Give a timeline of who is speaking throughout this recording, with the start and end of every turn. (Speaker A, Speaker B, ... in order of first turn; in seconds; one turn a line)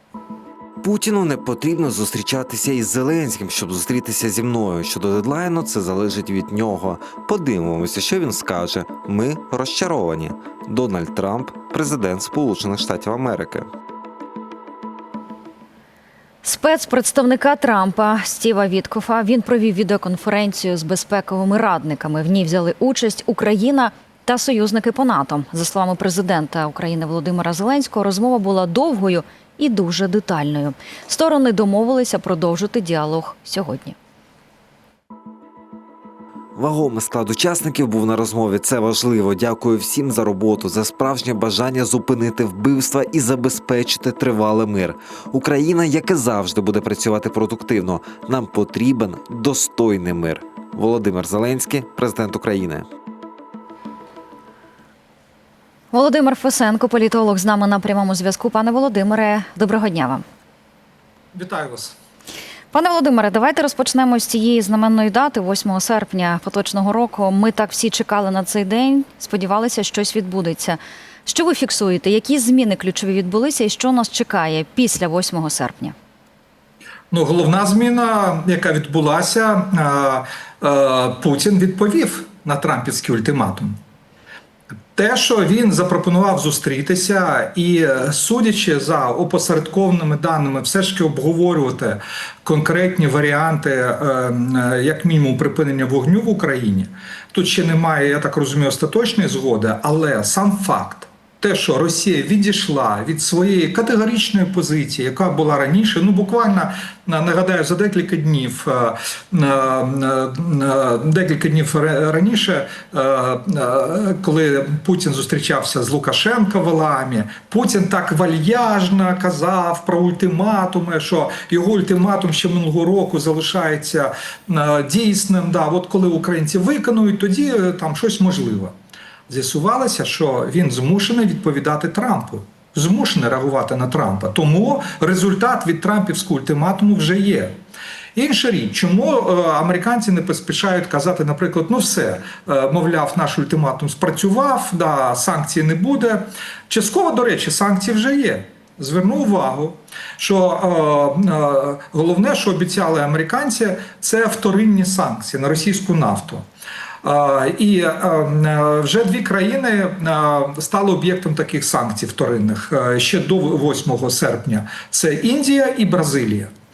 Speaker A: 0.8-13.7
Speaker B: 16.4-34.0
Speaker A: 36.6-52.9
Speaker B: 55.9-60.2
Speaker C: 61.3-62.0
Speaker B: 62.7-76.0
Speaker C: 77.1-83.8
Speaker C: 85.0-128.7
Speaker C: 129.3-137.6
Speaker C: 138.2-156.4
Speaker C: 157.0-166.5